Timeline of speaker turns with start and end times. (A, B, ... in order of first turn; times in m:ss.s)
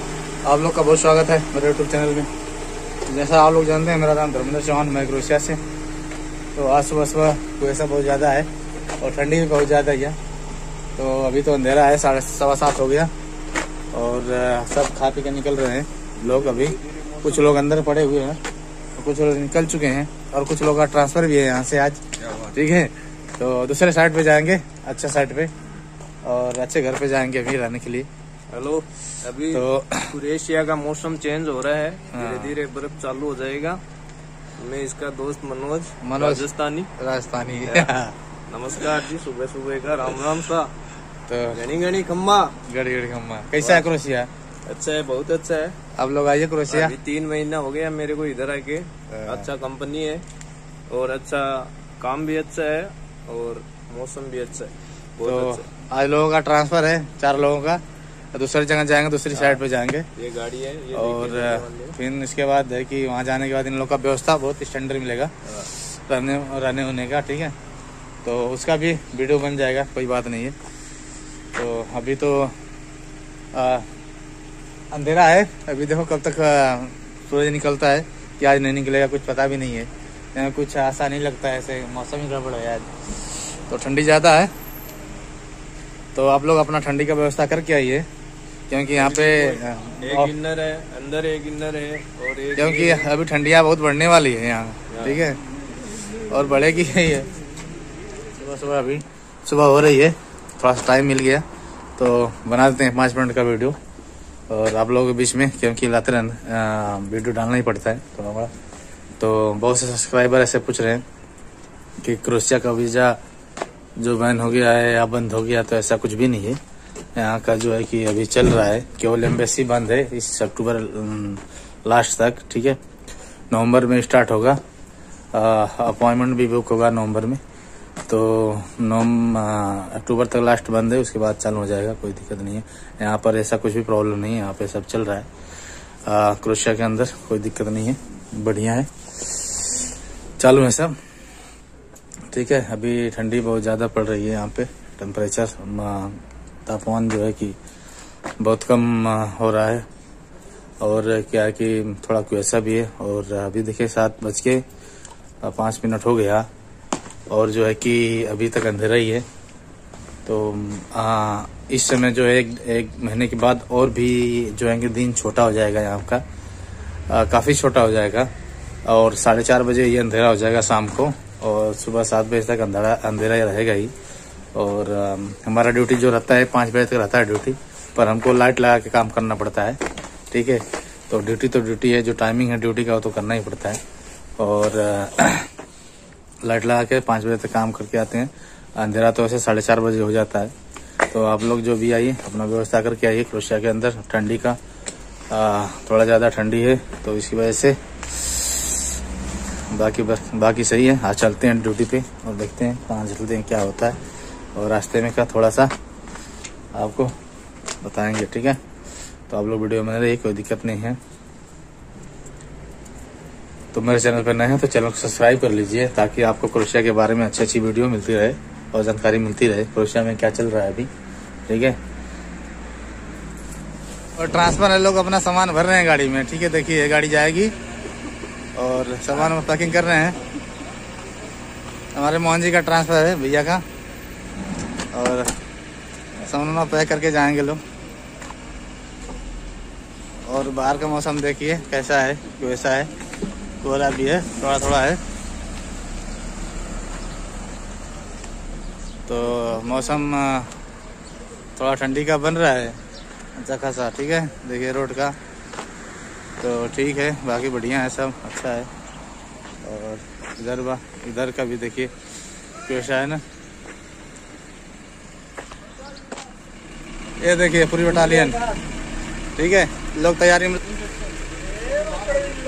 0:00.4-0:02.3 A
0:03.0-0:05.6 A
0:06.5-0:10.2 A
0:11.0-0:13.1 A
0:13.9-0:18.4 A
0:16.2-0:17.7 B
0:19.0-0:25.5 A
0:26.2-0:28.1 A
0:28.5-0:33.8 B
0:29.5-0:30.1 A
0:32.1-0:32.6 A
0:34.6-0:36.9 B
0:36.0-0:36.4 A
0:37.0-0:38.1 A
0:37.6-0:37.9 B
0:38.5-0:40.7 B
0:41.3-0:41.6 A
0:41.5-0:42.6 B
0:42.6-0:44.3 A
0:43.6-0:43.9 B
0:44.7-0:45.8 B
0:46.0-0:47.0 A
0:46.7-0:50.2 B
0:49.1-0:49.5 A
0:50.9-0:55.7 B
0:55.2-0:57.8 A
0:58.3-1:00.1 A
0:59.3-0:59.6 B
1:00.1-1:02.0 B
1:00.9-1:07.5 A
1:08.2-1:10.6 A
1:11.5-1:12.5 A
1:13.5-1:13.9 A
1:14.9-1:24.5 A
1:26.1-1:28.1 A
1:28.7-1:30.3 A
1:28.9-1:33.1 B
1:32.6-1:35.4 A
1:34.9-1:35.2 B
1:36.2-1:37.3 A
1:38.3-1:41.4 A
1:42.0-1:43.8 A
1:44.5-1:48.5 A
1:49.2-1:51.0 A
1:52.0-1:53.2 A
1:54.0-1:56.6 A
1:57.2-2:02.8 A
2:03.5-2:04.6 A
2:05.3-2:07.4 A
2:08.1-2:15.3 A
2:16.0-2:19.7 A
2:20.4-2:21.0 A
2:22.3-2:27.6 A
2:28.4-2:29.8 A
2:30.8-2:34.6 A
2:35.4-2:36.5 A
2:37.3-2:39.2 A
2:40.2-2:46.2 A
2:47.1-2:48.3 A
2:48.8-2:53.9 A
2:54.5-3:03.8 A
3:04.4-3:05.5 A
3:06.4-3:10.5 A
3:11.1-3:14.6 A
3:15.3-3:18.8 A
3:19.7-3:24.0 A
3:24.5-3:25.7 A
3:26.7-3:27.1 A
3:27.8-3:28.6 A
3:29.3-3:31.0 A
3:33.7-3:40.9 A
3:41.5-3:41.8 A
3:44.2-3:47.5 A
3:48.5-3:50.2 A
3:51.9-3:53.6 A
3:54.9-3:55.3 A
3:56.2-3:57.6 A
4:00.2-4:02.9 A
4:03.6-4:05.0 A
4:09.1-4:10.5 A
4:11.6-4:12.8 A
4:13.4-4:15.2 A
4:16.4-4:18.7 A
4:19.6-4:21.9 A
4:22.6-4:23.2 A
4:27.2-4:28.4 A
4:29.4-4:30.7 A